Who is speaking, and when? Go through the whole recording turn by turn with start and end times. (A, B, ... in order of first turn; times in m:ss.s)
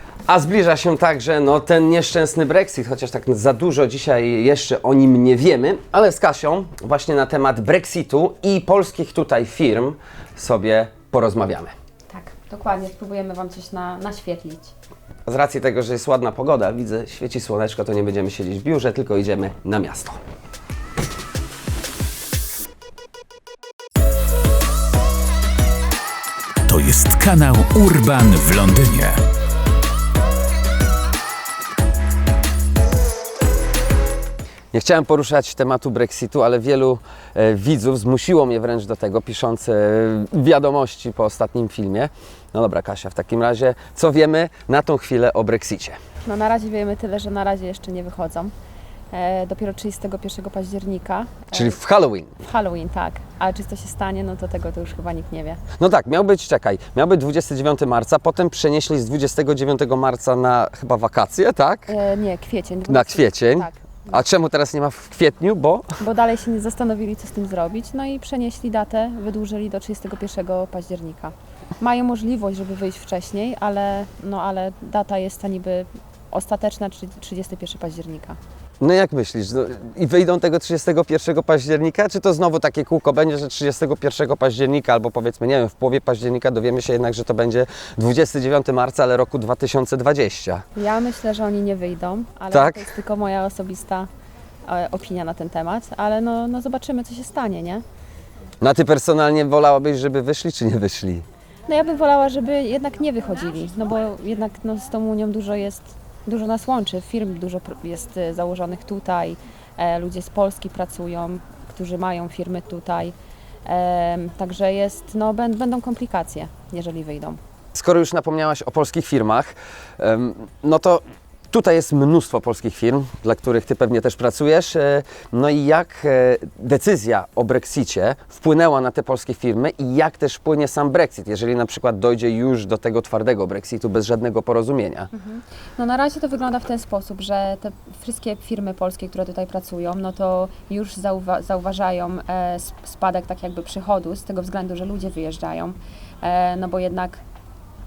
0:00.3-0:11.7 A
0:12.1-0:14.7 B
0:15.2-0:20.2 A
0:26.6-0:29.2 C
0:34.7-0:46.0 A
0:46.2-0:48.5 B
0:49.1-0:51.8 B
0:51.5-0:52.3 A
0:52.4-0:55.6 B
0:55.8-1:01.9 A
1:01.9-1:04.2 B
1:02.9-1:05.9 A
1:06.0-1:18.4 B
1:18.8-1:30.6 A
1:30.8-1:34.1 B
1:32.5-1:32.8 A
1:34.6-1:37.8 B
1:38.6-1:41.2 A
1:41.7-1:57.4 B
1:57.7-2:15.1 A
2:15.1-2:27.2 B